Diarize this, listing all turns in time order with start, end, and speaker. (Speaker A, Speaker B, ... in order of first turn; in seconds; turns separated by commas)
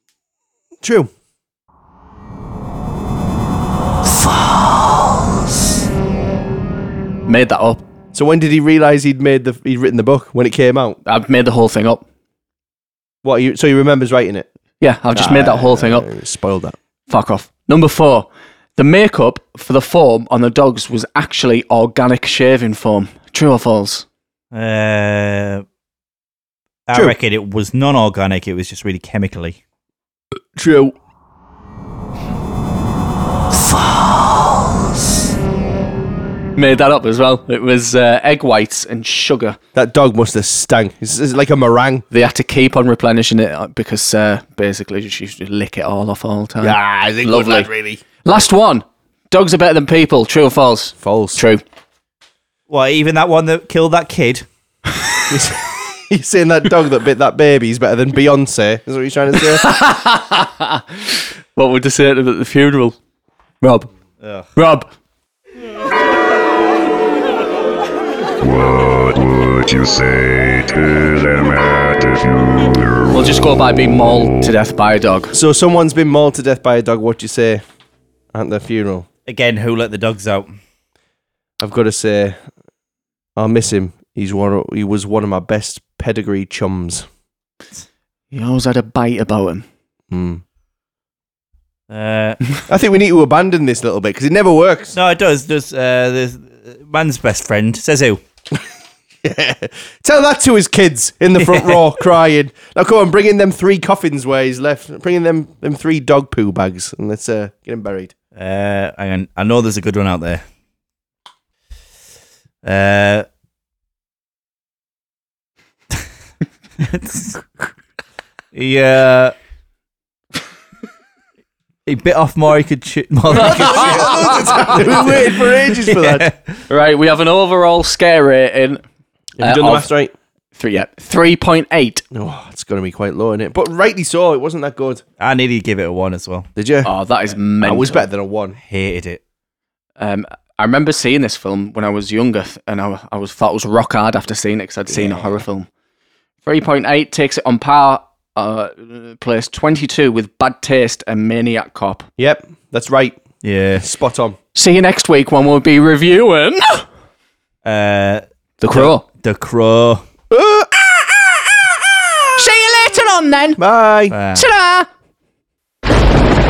Speaker A: 0.8-1.1, Speaker B: 7.3-7.8, Speaker A: 8.1-11.0, Speaker B: 11.0-12.0, Speaker A: 13.2-14.5, Speaker B: 14.8-16.1, Speaker A: 15.1-16.8, Speaker B: 17.1-24.1, Speaker C: 24.5-25.6, Speaker C: 26.9-29.6, Speaker A: 30.6-30.9, Speaker B: 36.6-39.6, Speaker A: 39.8-42.1, Speaker B: 42.1-47.7, Speaker A: 46.6-48.0, Speaker B: 48.2-51.6, Speaker A: 51.0-51.4, Speaker C: 52.7-54.5, Speaker A: 55.3-59.7, Speaker B: 59.5-60.9, Speaker B: 61.5-63.0, Speaker B: 63.6-63.9, Speaker C: 64.2-64.5, Speaker B: 64.6-64.9, Speaker D: 68.6-72.5, Speaker B: 73.0-75.3, Speaker A: 75.3-77.6, Speaker A: 78.3-79.1, Speaker C: 79.3-80.6, Speaker A: 81.6-82.4, Speaker A: 83.4-87.0, Speaker B: 88.3-89.7, Speaker A: 90.1-90.4, Speaker C: 91.9-92.5, Speaker A: 92.7-95.0, Speaker C: 94.9-98.2, Speaker A: 99.2-108.1, Speaker C: 101.4-101.8, Speaker C: 108.4-110.5, Speaker C: 112.6-113.3, Speaker C: 116.8-117.7, Speaker C: 118.5-119.3, Speaker C: 121.9-123.8, Speaker A: 123.3-126.3, Speaker C: 125.3-126.5, Speaker B: 126.7-128.8, Speaker A: 129.4-130.1, Speaker B: 129.4-129.9, Speaker B: 130.6-132.0, Speaker A: 132.1-135.0, Speaker C: 135.2-136.5, Speaker A: 136.6-136.9, Speaker B: 136.8-138.1, Speaker A: 137.6-138.6, Speaker C: 138.6-139.2, Speaker B: 140.0-145.7, Speaker A: 144.9-145.3, Speaker B: 146.4-152.1, Speaker A: 152.2-153.2, Speaker C: 153.4-153.8, Speaker A: 153.8-154.4, Speaker B: 154.6-156.8, Speaker C: 157.6-160.0, Speaker B: 158.6-159.0, Speaker A: 160.3-160.7, Speaker B: 162.4-163.6, Speaker A: 163.6-164.2, Speaker C: 164.1-164.5, Speaker B: 164.3-164.9